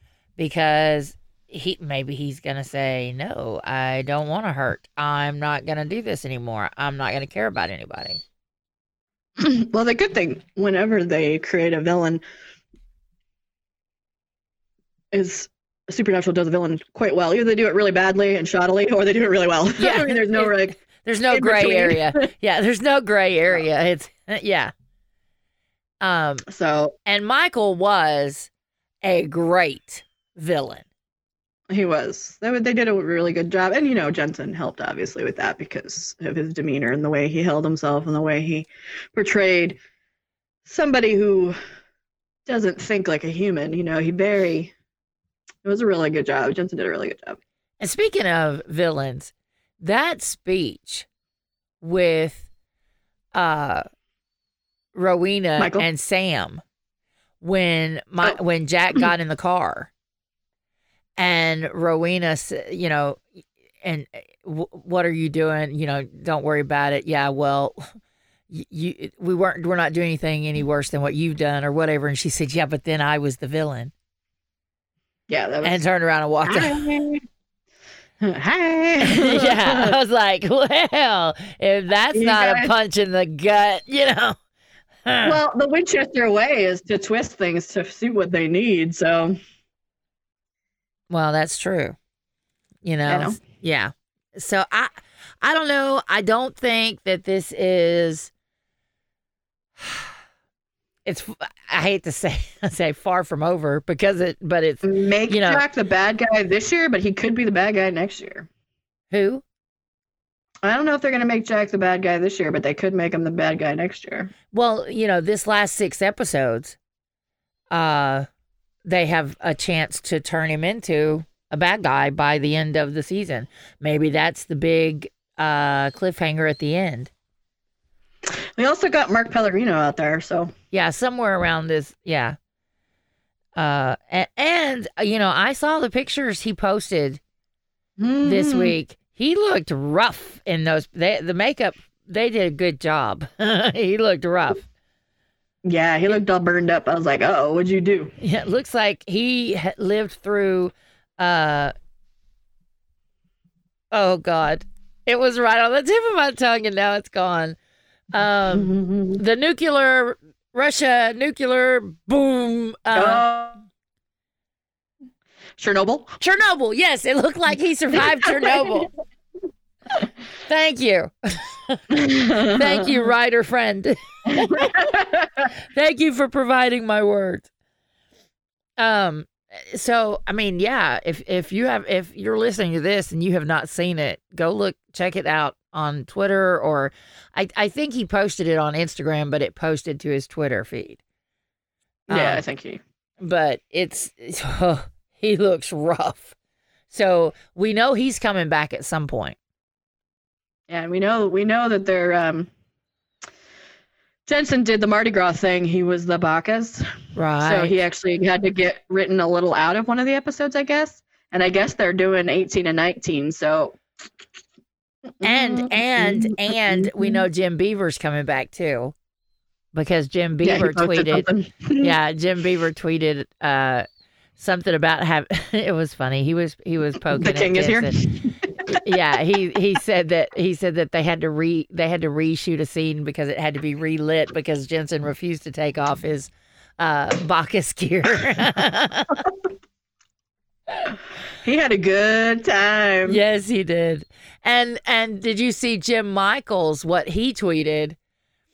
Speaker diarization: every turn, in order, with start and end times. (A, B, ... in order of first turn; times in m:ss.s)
0:00.4-0:08.2 A
0:09.4-0:12.2 B
0:15.1-0:20.8 B
0:19.8-0:24.7 A
0:21.3-0:22.2 B
0:26.0-0:26.5 A
0:26.5-0:27.0 B
0:27.0-0:28.5 A
0:29.0-0:30.9 A
0:31.7-0:39.8 B
0:40.6-0:41.6 B
0:42.5-0:44.7 B
0:45.6-0:47.4 B
0:47.8-0:51.1 A
0:51.8-0:52.5 A
0:53.3-0:53.8 A
0:55.0-0:56.6 A
0:55.6-0:55.9 B
0:57.4-0:59.9 A
1:01.2-1:03.3 A
1:03.8-1:07.8 A
1:08.5-1:13.9 A
1:15.3-1:15.8 B
1:15.6-1:16.8 A
1:16.5-1:17.2 B
1:18.2-1:19.9 B
1:19.0-1:24.4 A
1:22.1-1:22.7 B
1:25.0-1:25.4 A
1:25.2-1:29.4 B
1:31.1-1:32.0 A
1:32.8-1:38.3 A
1:33.1-1:33.4 B
1:39.8-1:40.1 A
1:41.1-1:45.6 A
1:44.8-1:48.5 B
1:49.1-1:49.4 A
1:50.6-1:54.3 B
1:54.5-1:56.8 A
1:57.7-1:58.3 A
1:58.9-2:07.1 A
2:08.3-2:10.5 B
2:10.7-2:12.4 A
2:13.6-2:17.2 A
2:18.0-2:18.8 B
2:18.2-2:24.7 A
2:25.6-2:28.2 B
2:28.2-2:31.7 A
2:33.9-2:37.6 A
2:38.1-2:43.3 A
2:38.5-2:39.2 B
2:43.0-2:43.6 B
2:45.6-2:46.2 B
2:46.2-2:48.9 A
2:48.2-2:48.8 B
2:50.5-2:54.9 A
2:51.9-2:53.0 B
2:54.3-2:55.4 B
2:55.7-2:57.5 A
2:58.8-3:11.0 A
3:12.1-3:12.8 B
3:12.1-3:12.4 A
3:13.2-3:16.4 A
3:16.9-3:19.4 A
3:20.7-3:22.5 B
3:24.3-3:26.8 B
3:27.2-3:27.8 A
3:27.4-3:33.8 B
3:35.2-3:37.2 B
3:35.2-3:38.9 A
3:39.7-3:41.3 A
3:40.4-3:41.9 B
3:41.8-3:43.8 A
3:44.4-3:48.0 A
3:47.1-3:48.8 B
3:48.7-3:59.2 A
4:01.4-4:03.2 B
4:03.1-4:08.0 A